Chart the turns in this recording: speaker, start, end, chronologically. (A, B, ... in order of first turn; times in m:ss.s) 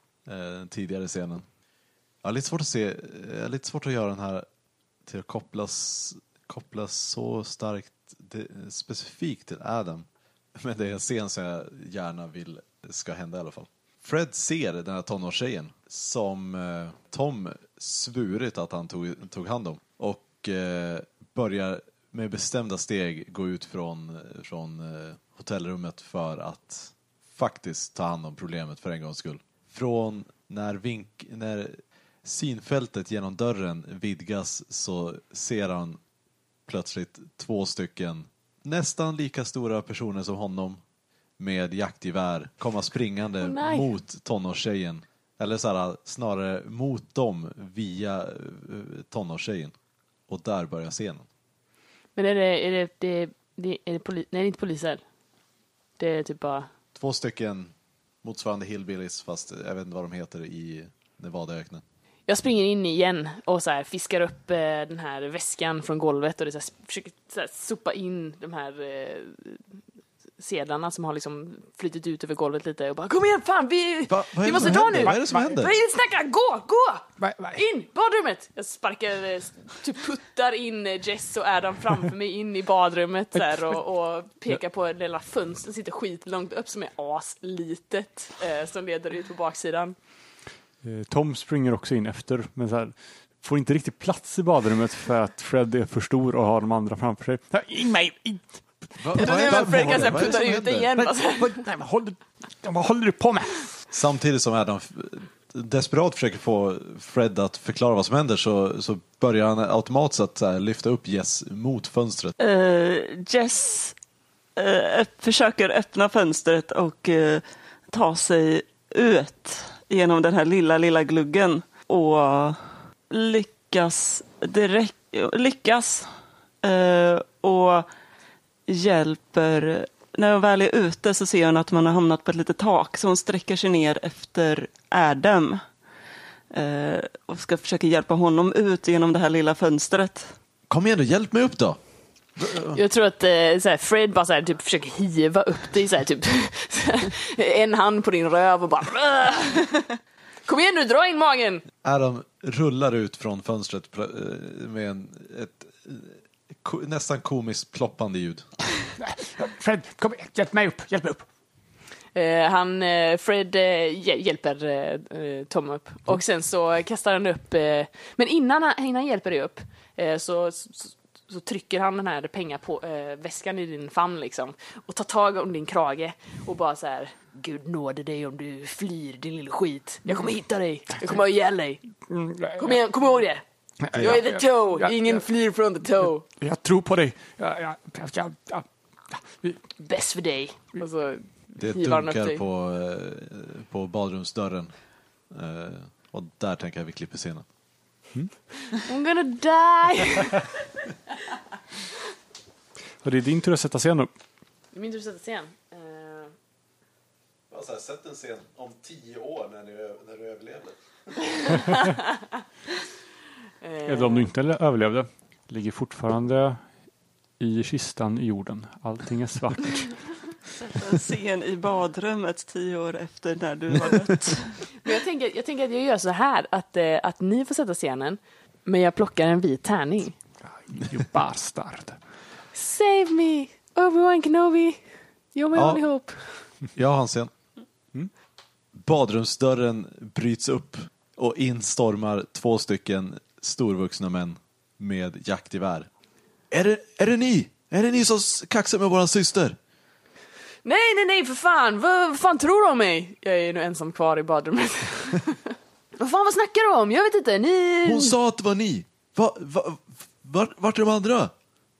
0:00.2-0:01.4 A
0:02.2-0:04.4 A
0:05.0-0:36.0 A
0:36.7-0:40.8 A
0:41.4-0:49.7 A
0:43.4-0:43.9 B
0:50.3-0:51.3 A
0:52.2-0:55.0 B
0:56.0-0:56.7 B
0:56.9-1:01.8 A
1:02.3-1:09.8 B
1:10.4-1:30.0 B
1:14.1-1:15.7 A
1:14.5-1:15.6 C
1:17.2-1:17.6 C
1:23.3-1:23.8 C
1:30.8-1:40.3 C
1:39.0-1:40.9 A
1:39.1-1:41.6 B
1:41.0-1:43.8 C
1:43.9-1:52.3 A
1:52.4-1:54.0 D
1:54.6-2:07.9 D
2:08.7-2:15.6 D
2:16.5-2:20.4 D
2:20.7-2:22.8 A
2:22.7-2:29.9 B
2:30.4-2:31.6 B
2:31.8-2:38.4 A
2:39.0-2:41.3 C
2:42.1-3:06.3 B
3:00.0-3:00.4 C
3:02.1-3:02.8 C
3:03.8-3:09.8 C
3:09.8-3:12.4 B
3:11.6-3:17.4 A
3:18.8-3:20.4 B
3:23.0-3:24.1 C
3:24.7-3:26.3 B
3:27.5-3:31.6 A
3:33.6-3:34.3 B
3:33.8-3:40.2 C
3:40.7-3:44.8 D
3:44.8-3:50.2 B
3:50.4-3:52.0 C
3:52.5-3:56.5 B
3:55.5-3:57.3 A
3:58.7-4:05.9 A
4:06.5-4:09.6 A
4:10.6-4:18.1 B
4:17.8-4:21.3 A